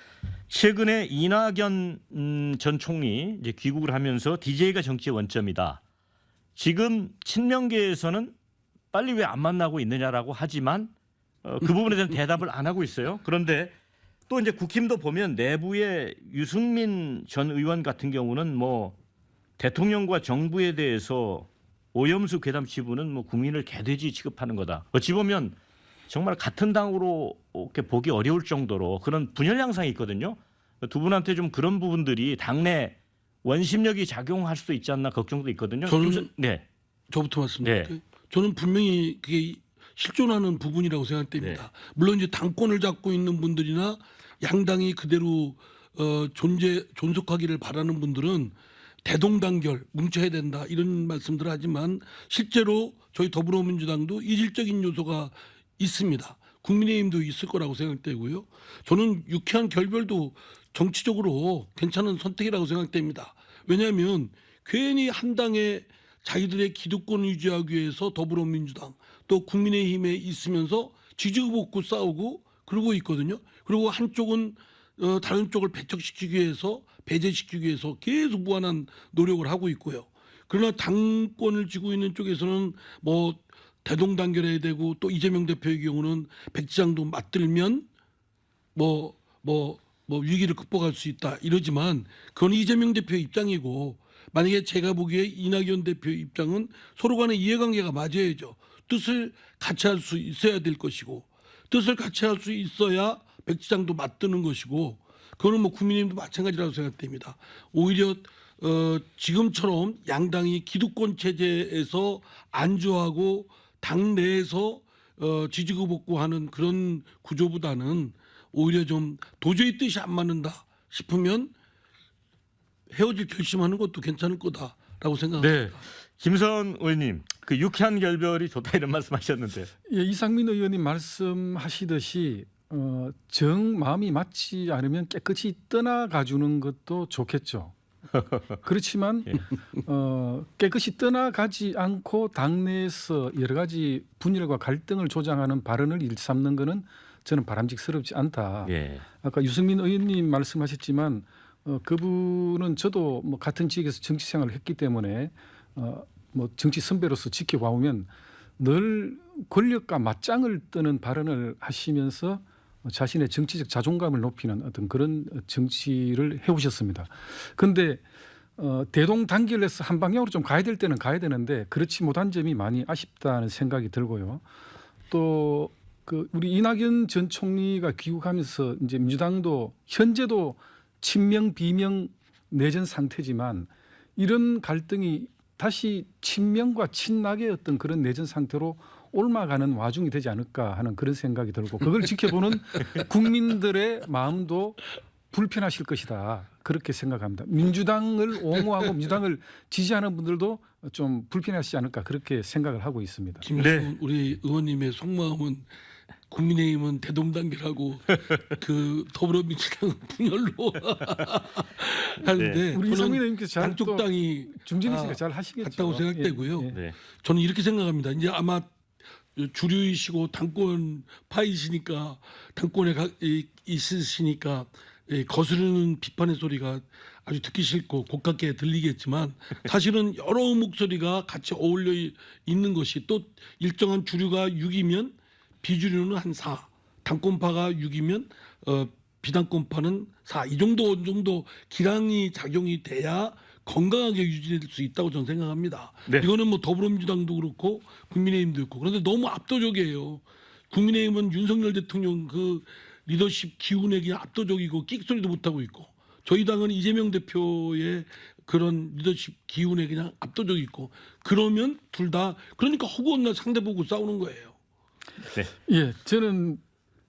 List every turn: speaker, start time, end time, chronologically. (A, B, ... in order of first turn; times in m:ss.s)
0:00.5-0:05.8 A
0:06.6-0:08.3 A
0:08.9-0:10.9 A
0:11.4-0:13.7 A
0:14.3-0:18.9 A
0:19.6-0:25.6 A
0:26.1-0:36.6 A
0:35.8-0:36.3 B
0:37.1-0:48.5 B
0:37.6-0:37.9 A
0:41.4-0:41.6 A
0:49.0-1:27.9 B
1:28.7-2:01.5 B
2:02.9-2:05.8 B
2:05.4-2:09.7 A
2:09.9-2:17.7 C
2:18.6-2:48.0 C
2:28.6-2:29.0 A
2:48.6-2:54.4 C
2:55.1-3:23.5 C
3:23.4-3:25.7 B
3:23.6-3:23.9 A
3:26.3-3:38.7 B
3:32.3-3:32.6 A
3:32.6-3:36.8 C
3:36.7-3:37.0 A
3:39.4-4:24.5 B
4:25.7-4:26.6 C